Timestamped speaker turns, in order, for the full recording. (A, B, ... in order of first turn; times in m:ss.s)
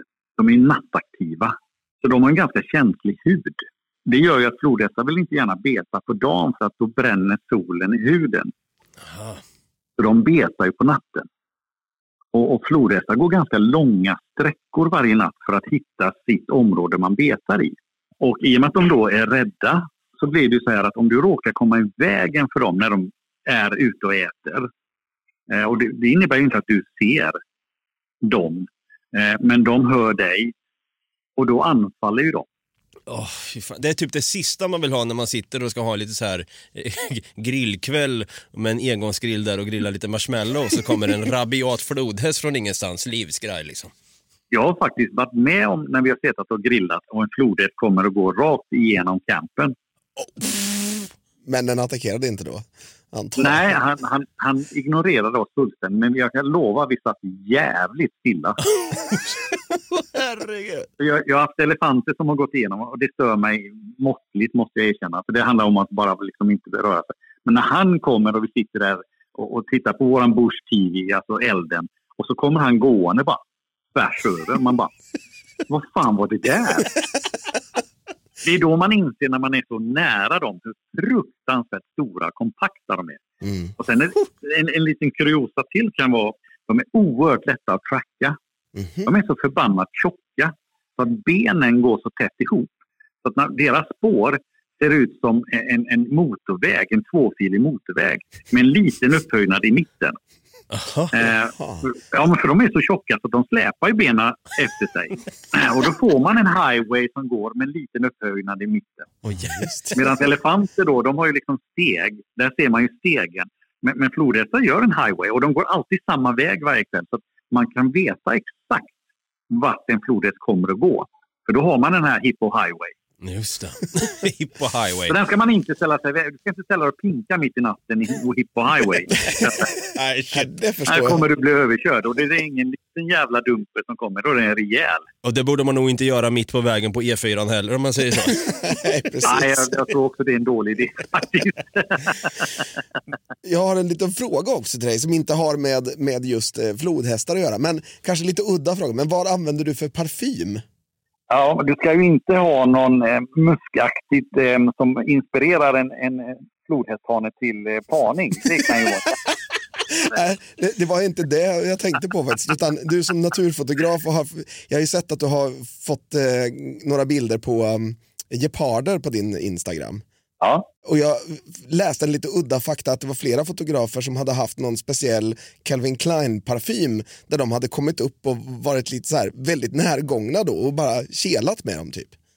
0:00.4-0:08.5 A
0:09.0-0:09.4 B
0:10.0-0:11.2 A
0:12.3-0:24.6 A
0:25.5-0:27.4 A
0:28.2-0:30.5 A
0:31.4-0:32.4 A
0:33.1-0:43.9 B
0:44.5-0:49.7 A
0:50.2-0:51.0 B
0:51.4-0:53.8 C
0:53.4-0:58.7 A
0:58.8-1:00.9 B
1:01.0-1:13.4 A
1:13.9-1:14.9 A
1:15.7-1:17.0 A
1:18.4-1:23.2 A
1:23.4-1:23.7 C
1:23.8-1:28.4 A
1:28.7-1:29.1 C
1:29.0-1:32.7 A
1:33.2-1:40.2 A
1:40.7-1:41.1 B
1:41.1-1:49.1 A
1:41.6-1:41.8 C
1:49.2-1:49.7 B
1:49.3-1:50.2 C
1:49.9-1:58.9 A
1:59.5-2:02.9 A
2:03.2-2:05.1 B
2:05.1-2:09.7 A
2:09.9-2:10.5 B
2:10.3-2:11.2 C
2:10.9-2:15.0 A
2:15.2-2:18.5 B
2:18.4-2:19.8 C
2:19.2-2:22.5 A
2:23.4-2:30.6 C
2:31.3-2:39.2 A
2:39.9-2:50.0 C
2:50.4-2:50.6 A
2:50.8-3:02.1 C